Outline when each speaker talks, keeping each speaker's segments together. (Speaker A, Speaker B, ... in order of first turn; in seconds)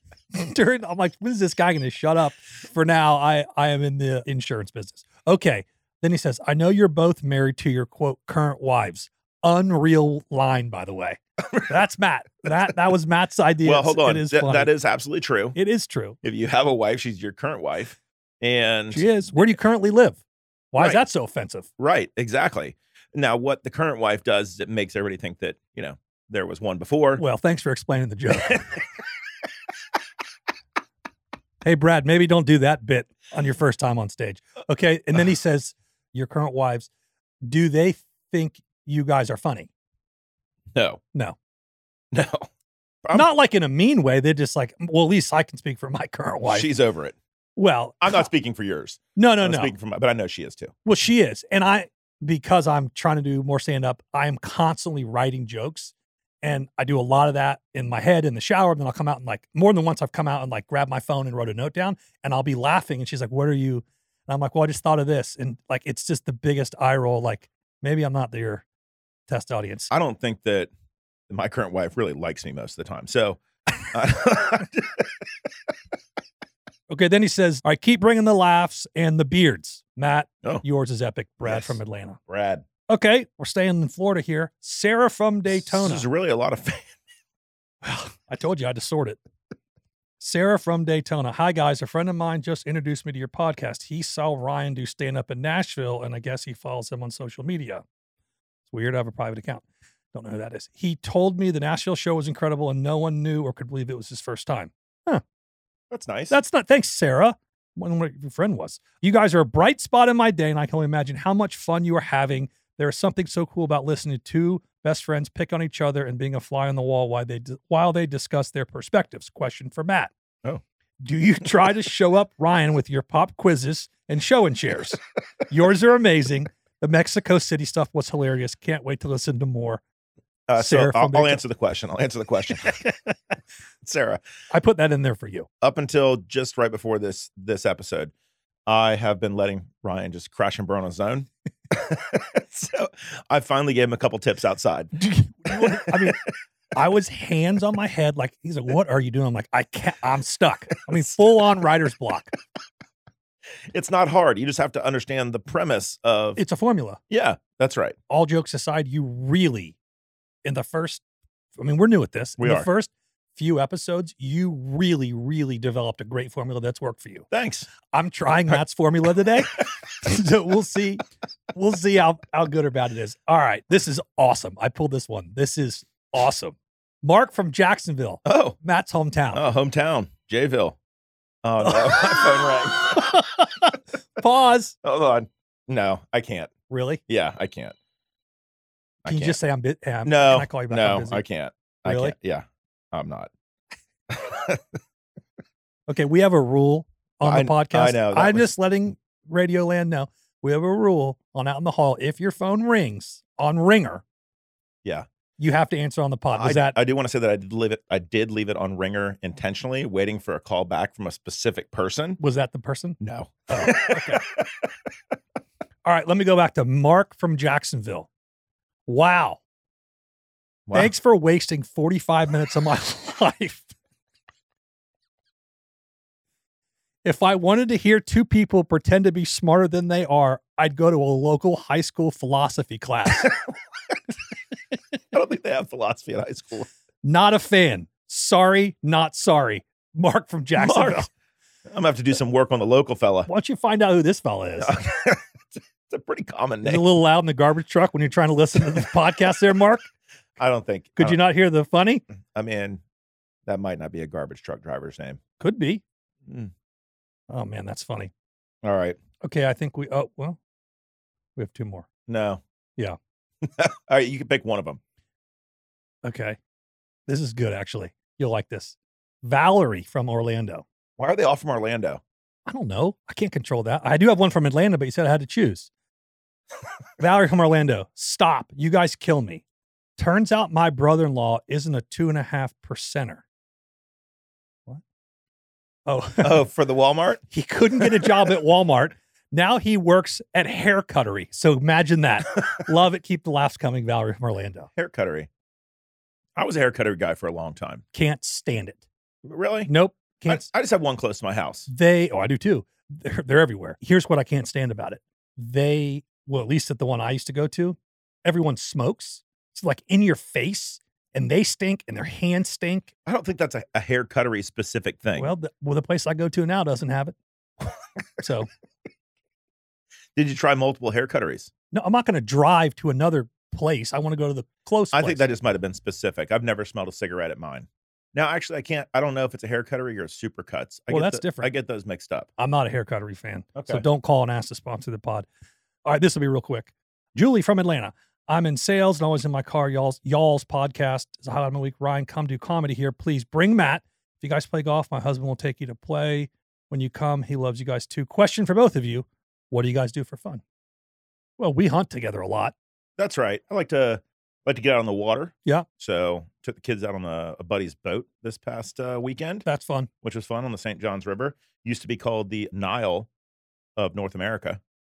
Speaker A: 0.3-14.7, 15.6-16.2, 18.9-20.2, 20.7-21.7, 27.2-28.8, 31.6-36.9, 37.4-39.7, 43.1-46.7, 47.6-48.3, 49.2-49.8, 50.9-68.6, 69.3-69.9, 76.9-82.2, 82.9-86.1, 87.8-89.2, 90.2-97.8, 98.7-105.2, 106.3-120.1, 121.0-129.8, 130.6-131.4, 134.5-135.5, 145.0-152.3, 156.4-157.0, 158.1-159.8, 160.4-161.0, 161.6-167.3, 167.9-179.4, 181.7-182.2, 182.9-184.8, 186.7-187.0, 189.1-191.2, 191.8-192.2, 195.9-204.0, 205.4-206.8, 212.2-214.2, 215.8-218.1, 218.9-219.4, 220.7-223.7, 227.0-233.3, 237.0-241.1, 243.3-244.8, 246.6-249.9, 251.0-252.0, 255.4-255.8, 257.3-258.1, 259.2-260.4, 261.4-261.9, 266.0-266.4, 267.1-270.6, 272.5-275.7, 277.0-279.4, 280.0-283.2, 285.9-286.4, 287.3-294.7, 297.9-298.8, 299.7-300.4, 301.7-312.9, 315.2-317.2, 318.2-318.5, 321.7-325.2, 330.9-331.5, 332.4-335.3, 335.9-350.4, 351.4-352.5, 359.4-359.9
Speaker B: 13.6-15.6, 16.2-19.5, 21.8-27.2, 40.7-41.0, 42.1-42.5, 43.0-43.3, 46.5-47.2, 48.0-50.7, 69.9-70.7, 71.3-75.1, 81.4-82.7, 85.5-87.0, 105.9-106.4, 130.5-132.8, 133.8-134.2, 135.6-138.1, 138.7-144.9, 145.5-146.1, 153.7-156.4, 157.1-158.0, 162.4-162.7, 167.3-167.7, 178.2-178.6, 179.3-180.8, 181.4-183.1, 184.8-186.5, 187.1-187.8, 189.0-189.4, 190.1-193.3, 194.1-194.8, 197.2-198.5, 206.3-212.2, 213.0-214.5, 220.7-220.9, 235.1-236.7, 240.6-241.1, 241.7-243.3, 244.6-245.3, 245.9-246.8, 250.4-251.2, 252.3-252.8, 253.5-255.2, 256.3-256.5, 258.6-259.0, 262.1-262.4, 263.4-264.8, 271.0-272.0, 286.2-287.2, 287.8-288.1, 294.8-295.3, 296.4-297.8, 299.2-299.7, 300.3-301.7, 313.1-315.3, 320.2-321.5, 324.9-332.3, 333.6-333.9, 353.0-359.5, 360.0-363.1, 363.8-364.6